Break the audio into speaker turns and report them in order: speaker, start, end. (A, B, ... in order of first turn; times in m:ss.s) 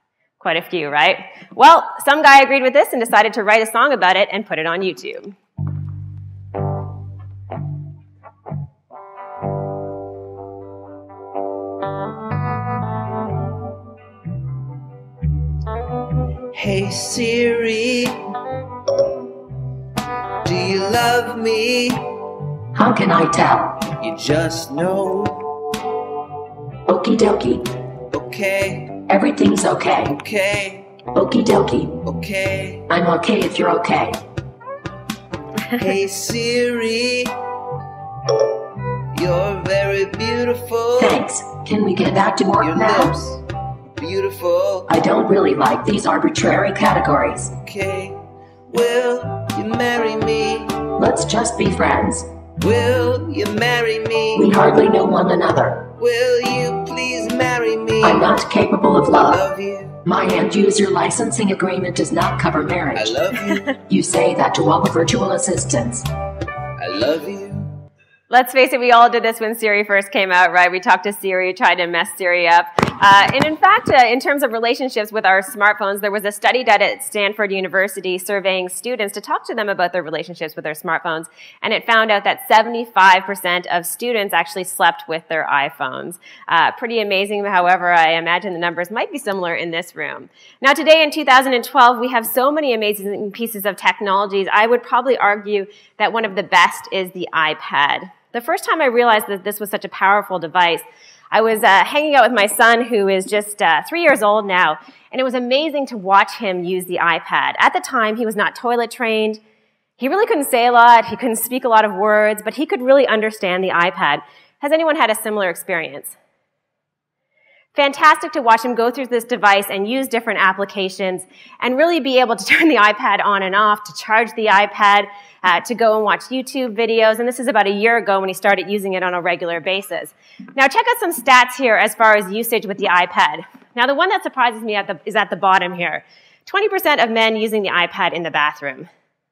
0:00.4-0:05.4 A
0:16.5-0:18.2 B
0:20.4-0:22.0 B
0:22.7-0:23.9 C
0:24.0-0:25.5 B
0:26.9-0:27.7 C
0:28.1-0:29.1 B
0:29.1-0:30.1 C
0:30.0-0:31.0 B
0:31.1-0:32.0 C
0:32.0-0:32.9 B
0:32.9-0:34.2 C
0:35.7-0:37.3 B
0:39.1-0:41.2 B
0:41.0-0:43.2 C
0:42.6-0:43.4 B
0:44.0-0:44.9 B
0:44.9-0:47.5 C
0:47.6-0:48.2 B
0:48.7-0:50.9 B
0:50.9-0:52.3 C
0:52.6-0:54.6 B
0:54.4-0:55.9 C
0:56.0-0:58.4 B
0:58.0-0:59.4 C
0:59.1-1:00.0 B
1:00.0-1:03.2 C
1:03.0-1:03.8 B
1:03.9-1:06.1 C
1:06.8-1:07.7 B
1:08.3-1:49.4 A
1:50.0-1:56.2 A
1:57.8-2:18.9 A